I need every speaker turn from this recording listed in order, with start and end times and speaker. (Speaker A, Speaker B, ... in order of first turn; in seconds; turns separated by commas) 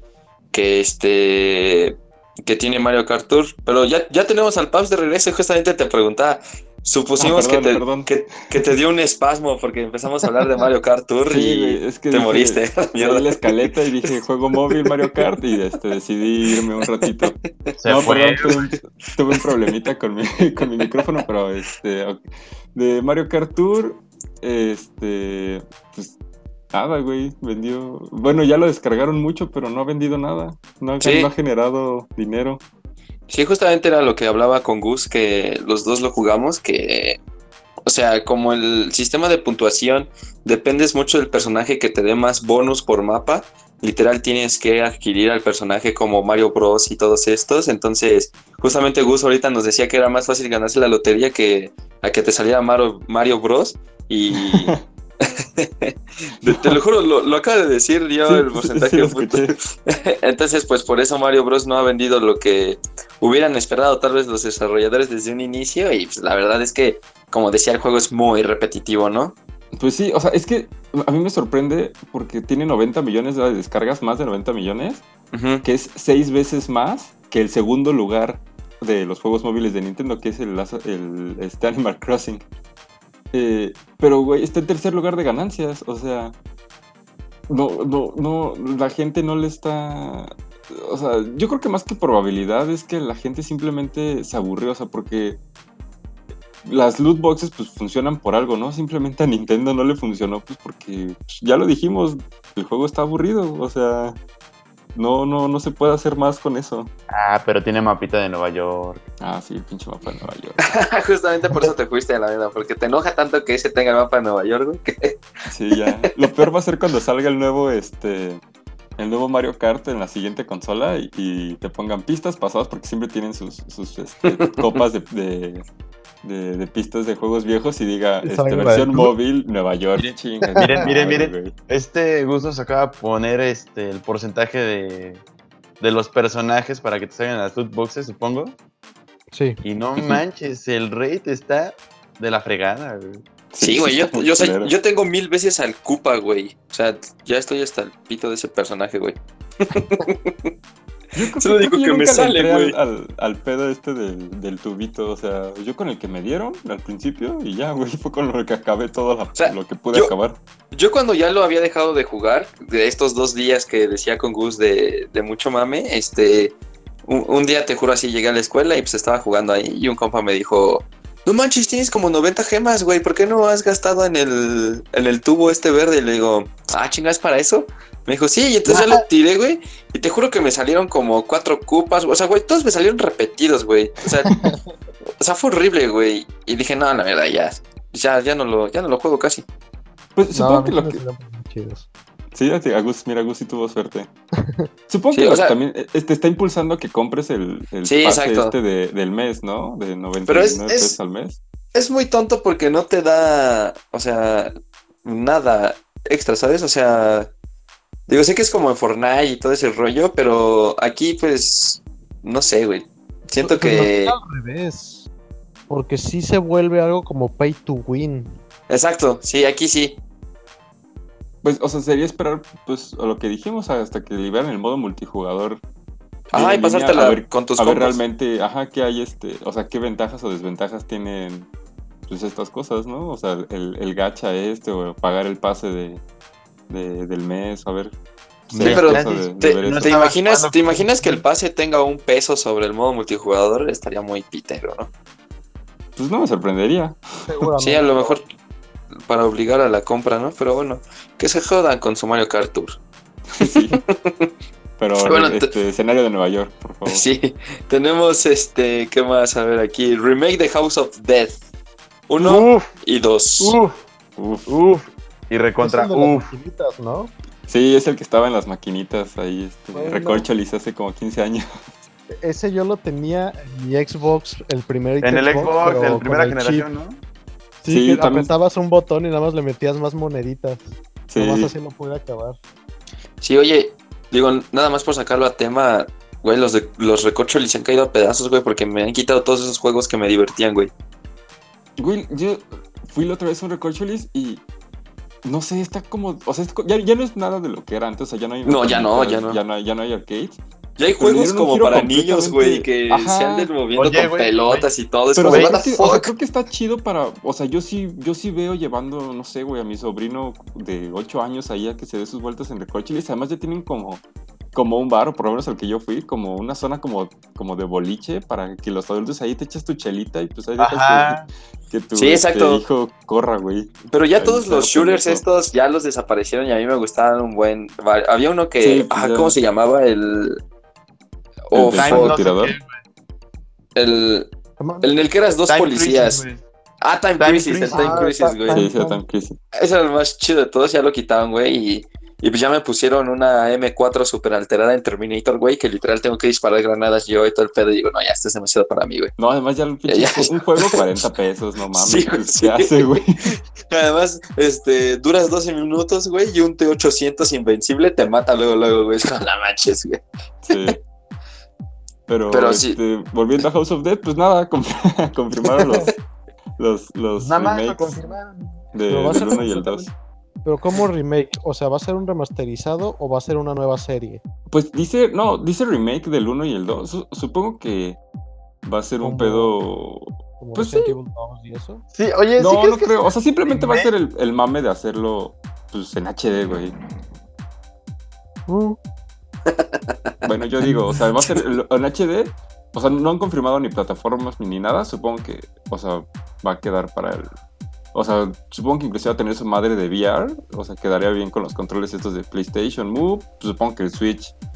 Speaker A: 0.5-13.5, Speaker B: 7.2-8.7, Speaker B: 11.3-22.2, Speaker A: 14.7-15.2, Speaker A: 17.1-17.8, Speaker C: 17.8-18.5, Speaker A: 18.4-18.8, Speaker A: 19.3-19.7, Speaker B: 22.8-26.2, Speaker B: 26.7-32.6, Speaker A: 31.0-31.3, Speaker A: 33.3-37.2, Speaker A: 37.9-69.3, Speaker B: 54.4-54.8, Speaker B: 56.4-56.8, Speaker B: 58.3-59.5, Speaker B: 69.7-75.0, Speaker A: 75.3-75.6, Speaker B: 75.6-82.4, Speaker B: 83.3-86.3, Speaker B: 87.5-95.4, Speaker B: 96.7-104.2, Speaker B: 105.0-106.9, Speaker C: 107.1-109.1, Speaker B: 109.2-110.6, Speaker A: 110.6-115.2, Speaker B: 115.5-118.4, Speaker B: 119.0-125.6, Speaker A: 124.5-124.8, Speaker B: 126.2-131.5, Speaker D: 128.2-129.1, Speaker C: 130.0-135.2, Speaker D: 130.4-130.8, Speaker C: 135.8-138.6, Speaker D: 139.3-139.6, Speaker C: 139.6-143.2, Speaker B: 143.5-144.7, Speaker A: 143.6-150.5, Speaker B: 151.2-160.4, Speaker A: 151.4-152.8, Speaker A: 159.4-160.1, Speaker A: 160.7-166.6, Speaker A: 167.1-184.3, Speaker C: 178.7-179.0, Speaker D: 184.3-184.6, Speaker B: 184.3-184.6, Speaker A: 185.2-189.4, Speaker B: 190.2-191.0, Speaker D: 190.3-191.9, Speaker B: 192.3-194.1, Speaker D: 194.4-194.7, Speaker B: 194.9-201.4, Speaker A: 195.1-195.6, Speaker A: 197.8-198.5, Speaker A: 200.3-201.0, Speaker A: 201.7-204.5, Speaker A: 205.0-207.3, Speaker A: 208.1-214.2, Speaker D: 213.4-215.1, Speaker D: 215.7-218.4, Speaker A: 218.7-220.0, Speaker B: 221.4-225.6, Speaker B: 226.3-231.5, Speaker A: 226.3-228.0, Speaker B: 232.1-236.0, Speaker B: 236.7-237.9, Speaker B: 238.5-240.0, Speaker C: 238.5-241.2, Speaker A: 238.6-244.9, Speaker B: 246.0-247.5, Speaker D: 247.3-248.2, Speaker A: 247.6-248.2, Speaker A: 249.1-252.8, Speaker B: 253.3-253.8, Speaker A: 253.4-254.3, Speaker B: 254.8-257.0, Speaker A: 255.1-255.5, Speaker A: 256.9-261.4, Speaker A: 262.1-263.6, Speaker C: 262.2-262.7, Speaker C: 263.4-263.8, Speaker B: 264.2-264.6, Speaker C: 264.5-266.3, Speaker D: 265.6-267.1, Speaker B: 267.5-271.5, Speaker D: 269.7-270.3, Speaker D: 272.2-276.7, Speaker C: 275.0-277.0, Speaker D: 277.6-282.4, Speaker B: 277.7-278.3, Speaker B: 281.1-281.5, Speaker A: 283.2-290.7, Speaker B: 291.8-294.4, Speaker B: 295.2-300.4, Speaker A: 298.5-299.4, Speaker A: 300.8-306.1, Speaker B: 301.0-303.5, Speaker C: 303.8-304.7, Speaker B: 305.2-314.0, Speaker C: 305.3-305.9, Speaker B: 314.5-325.2, Speaker C: 320.6-321.3, Speaker A: 321.9-322.6, Speaker A: 323.9-330.4, Speaker B: 328.6-329.4, Speaker A: 331.5-332.2, Speaker B: 331.5-332.6, Speaker C: 331.7-332.8, Speaker A: 333.8-334.3, Speaker D: 334.6-334.9, Speaker A: 334.8-336.2, Speaker C: 335.5-336.4, Speaker A: 336.8-338.6, Speaker C: 337.2-338.1, Speaker D: 337.7-339.0, Speaker B: 338.5-339.4, Speaker A: 339.5-349.1, Speaker B: 349.2-353.4, Speaker A: 349.9-350.9, Speaker A: 351.7-360.0, Speaker B: 360.4-360.8, Speaker B: 362.1-366.0, Speaker A: 362.3-362.8, Speaker B: 366.6-368.0, Speaker C: 367.2-368.6, Speaker B: 368.7-369.9, Speaker D: 368.9-369.9, Speaker D: 370.4-374.2, Speaker B: 374.5-378.0, Speaker B: 378.6-380.9, Speaker D: 379.0-379.6, Speaker D: 380.4-381.9, Speaker C: 381.9-383.9, Speaker B: 382.4-386.7, Speaker D: 388.5-388.8, Speaker A: 389.5-389.8, Speaker B: 390.2-397.3, Speaker B: 397.9-404.3